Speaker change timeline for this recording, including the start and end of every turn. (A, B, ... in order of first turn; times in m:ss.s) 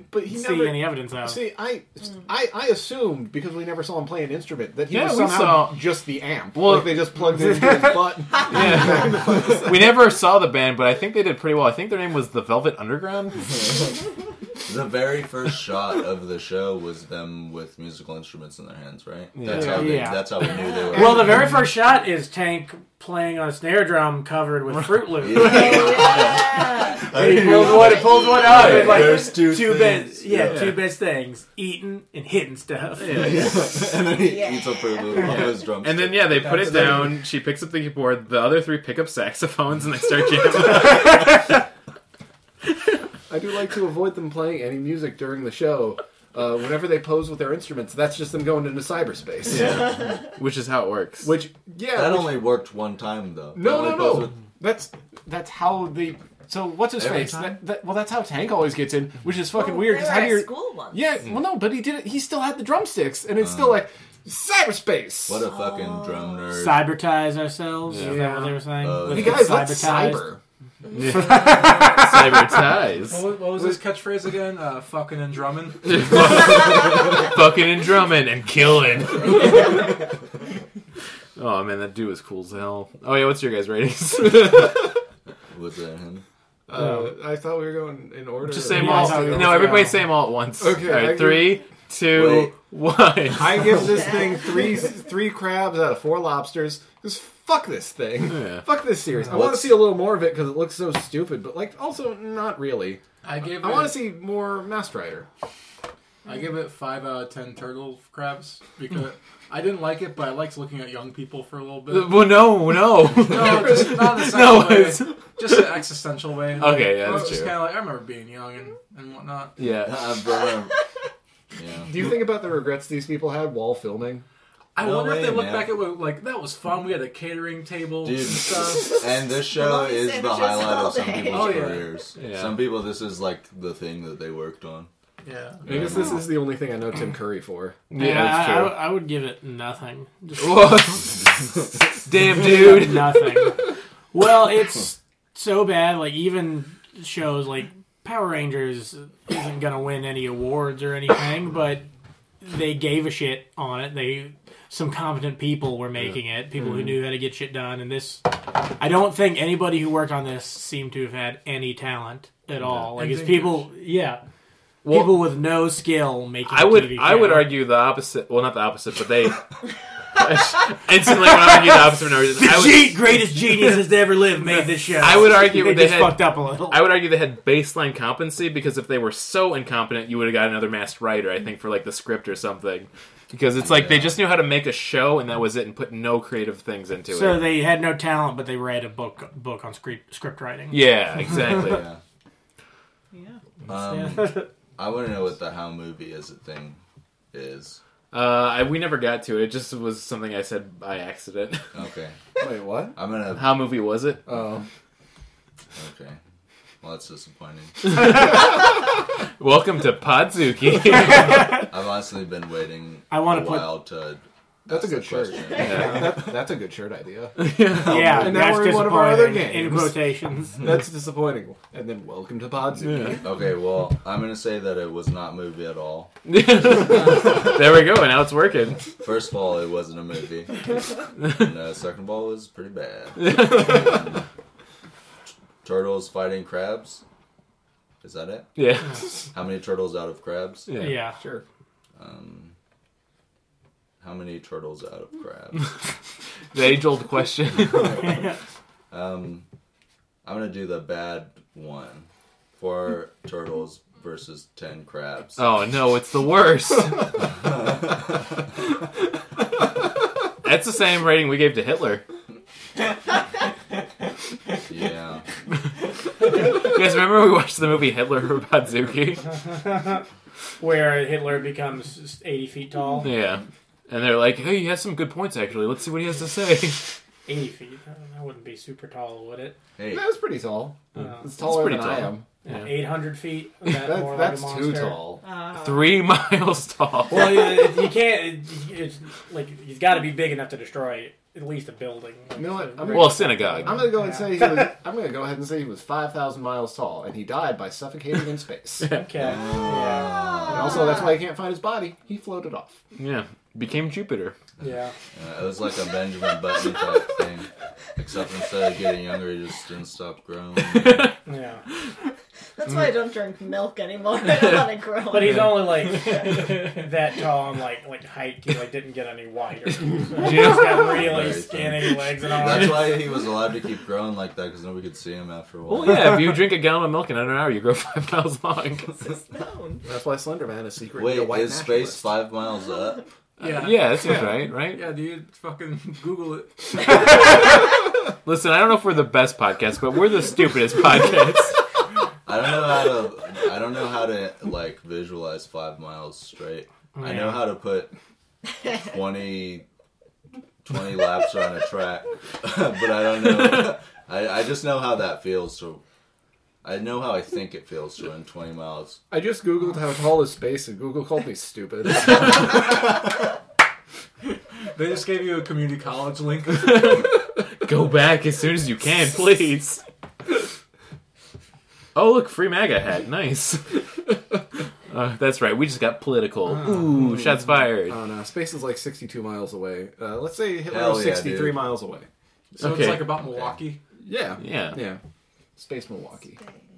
0:00.1-0:10.0 A
0:00.3-0:01.4 B
0:04.9-0:05.9 C
0:06.5-0:07.7 C
0:07.3-0:08.2 B
0:08.5-0:13.5 C
0:14.6-0:21.5 D
0:19.4-0:19.9 C
0:19.5-0:20.0 A
0:19.5-0:20.3 B
0:20.5-0:20.9 E
0:20.9-0:26.1 B
0:21.0-0:21.6 A
0:24.7-0:26.3 C
0:25.2-0:30.7 D
0:25.4-0:29.4 E
0:27.1-0:33.4 B
0:30.5-0:30.8 C
0:33.0-0:33.5 C
0:33.1-0:36.9 D
0:34.1-0:35.4 E
0:35.8-0:41.5 C
0:36.4-0:37.2 A
0:43.3-0:50.0 A
0:49.5-0:51.3 C
0:51.2-0:52.5 A
0:51.9-0:54.3 D
0:53.5-1:05.4 A
0:57.0-0:57.5 D
0:59.5-1:01.1 E
1:03.4-1:03.8 D
1:05.3-1:07.0 D
1:05.5-1:06.5 E
1:06.5-1:10.3 B
1:07.9-1:08.6 C
1:08.8-1:09.5 D
1:09.0-1:10.4 A
1:10.9-1:13.3 C
1:11.1-1:12.4 B
1:13.0-1:16.0 F
1:15.8-1:19.7 C
1:21.4-1:24.9 C
1:25.5-1:26.2 D
1:26.7-1:29.9 A
1:28.5-1:34.0 C
1:28.7-1:29.9 B
1:30.6-1:31.6 A
1:32.1-1:32.5 D
1:33.3-1:45.3 A
1:34.0-1:34.5 E
1:38.3-1:38.6 C
1:39.3-1:39.6 D
1:43.2-1:44.1 F
1:46.2-1:52.6 F
1:51.9-1:55.8 C
1:53.2-1:59.6 F
1:53.4-1:53.7 A
1:56.6-1:57.5 C
1:59.6-2:00.0 C
1:59.8-2:00.7 D
2:01.6-2:02.1 D
2:01.8-2:04.2 A
2:04.8-2:09.0 F
2:04.8-2:05.8 D
2:08.0-2:14.9 D
2:09.3-2:11.8 E
2:11.3-2:11.9 F
2:12.2-2:12.6 C
2:15.2-2:15.7 F
2:15.6-2:16.2 D
2:15.6-2:17.8 A
2:17.9-2:18.8 C
2:17.9-2:20.7 B
2:20.4-2:21.4 C
2:22.0-2:23.4 C
2:22.3-2:31.9 B
2:32.4-2:44.2 B
2:42.9-2:43.7 F
2:44.8-2:45.2 C
2:44.8-2:47.5 B
2:46.4-2:49.6 C
2:50.2-2:53.8 C
2:51.2-2:56.9 B
2:54.9-3:07.5 C
3:03.6-3:04.2 D
3:07.1-3:11.2 B
3:10.7-3:11.8 C
3:11.5-3:12.0 D
3:13.1-3:13.4 E
3:13.7-3:16.8 D
3:13.8-3:14.5 B
3:17.3-3:17.8 D
3:18.1-3:21.7 C
3:21.7-3:22.1 D
3:22.4-3:22.9 A
3:22.9-3:23.7 D
3:23.3-3:24.2 C
3:24.2-3:24.7 A
3:25.8-3:26.2 D
3:26.8-3:28.1 D
3:27.8-3:28.6 C
3:29.4-3:31.5 C
3:31.1-3:31.6 B
3:31.7-3:36.4 D
3:33.1-3:33.8 B
3:34.6-3:37.5 A
3:35.6-3:36.0 C
3:35.7-3:36.0 B
3:37.4-3:38.3 C
3:37.8-3:40.7 B
3:37.9-3:38.4 D
3:38.1-3:40.1 A
3:40.6-3:43.2 A
3:42.8-3:43.2 C
3:43.2-3:46.1 D
3:46.2-3:48.8 C
3:49.0-3:54.2 D
3:51.2-3:51.5 C
3:53.2-3:54.1 C
3:55.6-3:57.0 D
3:58.0-3:58.5 D
3:58.6-3:59.0 C
3:59.3-4:00.7 D
4:00.7-4:01.0 C
4:00.7-4:01.2 B
4:02.0-4:02.5 D
4:04.0-4:05.6 D
4:06.5-4:08.0 C
4:07.7-4:08.2 D
4:07.9-4:08.4 B
4:08.9-4:09.4 D
4:10.2-4:15.4 D
4:15.4-4:17.1 C
4:17.4-4:18.0 D
4:20.4-4:22.0 C
4:24.7-4:25.2 D
4:26.3-4:29.3 C
4:29.4-4:30.0 B
4:30.6-4:33.1 B
4:33.0-4:36.9 C
4:37.2-4:39.6 B
4:39.8-4:40.0 D
4:39.9-4:42.3 A
4:41.0-4:41.2 B
4:41.4-4:42.7 C
4:42.4-4:45.1 B
4:43.7-4:45.2 A
4:45.2-4:46.0 E
4:45.6-4:47.6 C
4:47.1-4:54.7 B
4:52.4-4:58.9 A
4:52.9-4:53.9 C
4:58.8-4:59.1 C
4:58.9-5:00.2 B
4:59.2-5:00.8 D
5:00.2-5:01.2 E
5:00.5-5:02.8 A
5:03.0-5:04.4 C
5:04.6-5:04.9 B
5:05.1-5:11.1 D
5:10.7-5:11.1 C
5:11.2-5:11.6 B
5:12.6-5:15.7 E
5:15.1-5:23.0 B
5:15.2-5:15.8 C
5:20.1-5:21.0 C
5:20.8-5:26.3 D
5:25.7-5:28.9 C
5:29.0-5:29.8 E
5:29.8-5:32.1 A
5:31.0-5:33.0 D
5:33.4-5:37.0 F
5:33.4-5:34.8 C
5:38.2-5:41.6 C
5:42.2-5:47.9 D
5:47.0-5:47.5 B
5:48.8-5:49.6 D
5:50.6-5:55.8 D
5:56.6-5:59.0 D
5:59.1-6:02.7 A
6:04.8-6:07.0 F
6:06.5-6:09.8 C
6:11.9-6:14.2 C
6:14.9-6:18.0 C
6:17.1-6:22.1 A
6:20.7-6:21.7 D
6:22.6-6:23.8 F
6:22.6-6:23.2 C
6:24.0-6:25.0 A
6:24.4-6:24.8 C
6:25.6-6:26.4 A